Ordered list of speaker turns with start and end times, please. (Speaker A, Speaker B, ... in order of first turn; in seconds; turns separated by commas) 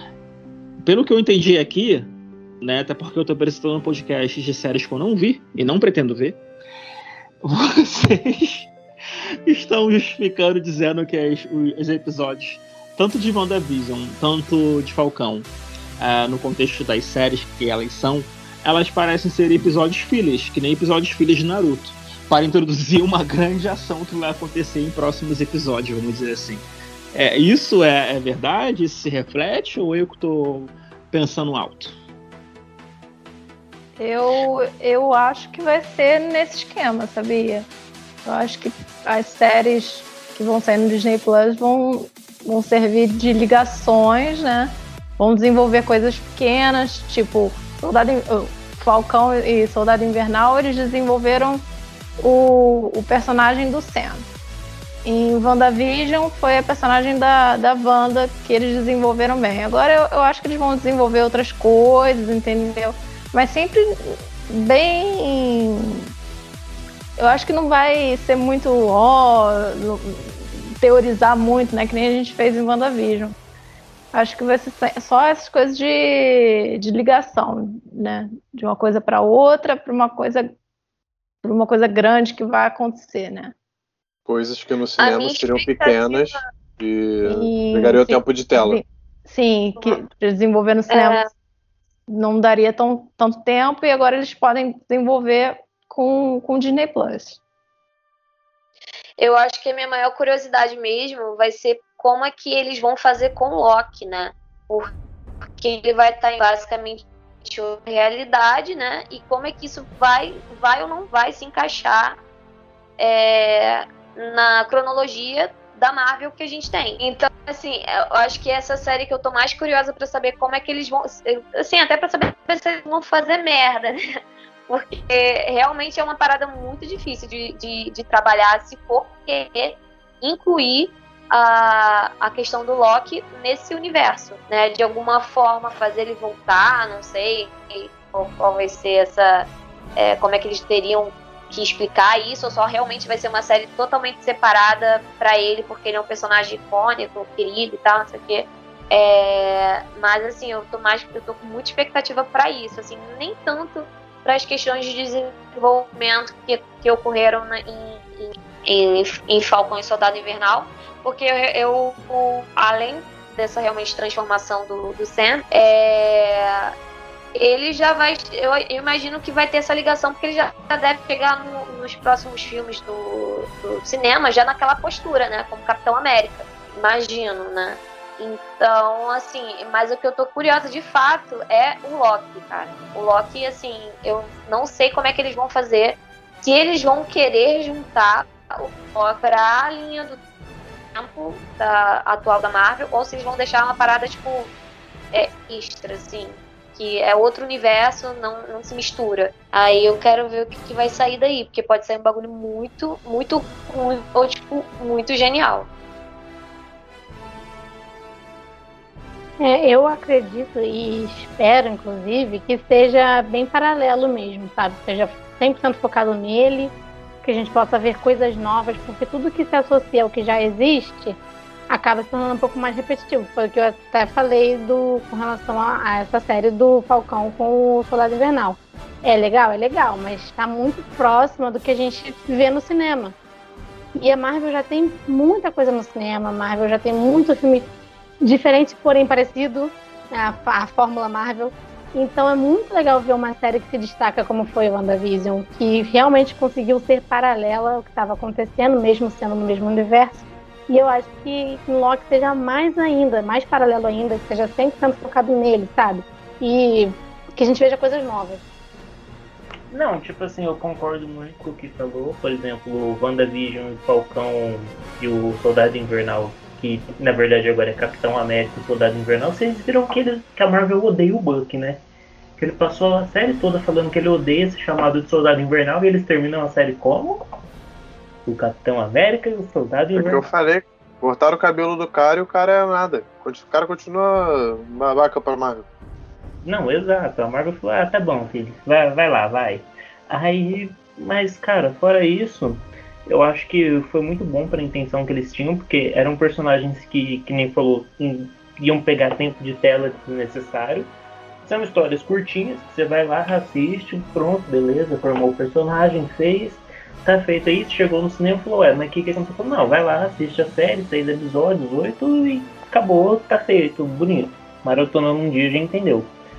Speaker A: 0.8-6.4, Speaker A: 7.4-8.7, Speaker A: 9.5-31.9, Speaker B: 34.0-37.7, Speaker B: 38.3-51.6, Speaker B: 52.2-54.2, Speaker B: 55.0-66.1, Speaker B: 67.2-73.4, Speaker B: 74.1-80.5, Speaker B: 81.4-83.5, Speaker C: 84.3-88.8, Speaker D: 85.0-86.4, Speaker B: 87.2-91.2, Speaker D: 90.9-91.2, Speaker B: 92.1-97.4, Speaker D: 99.2-104.9, Speaker D: 105.6-112.2, Speaker D: 113.0-124.0, Speaker D: 124.7-166.7, Speaker D: 167.4-190.2, Speaker D: 190.9-194.5, Speaker D: 195.1-205.7, Speaker E: 209.4-221.2, Speaker E: 221.7-233.2, Speaker E: 234.0-237.7, Speaker E: 238.2-258.4, Speaker F: 259.7-271.8, Speaker F: 272.4-277.2, Speaker F: 278.3-280.3, Speaker C: 279.9-285.7, Speaker F: 286.4-300.9, Speaker F: 301.4-316.1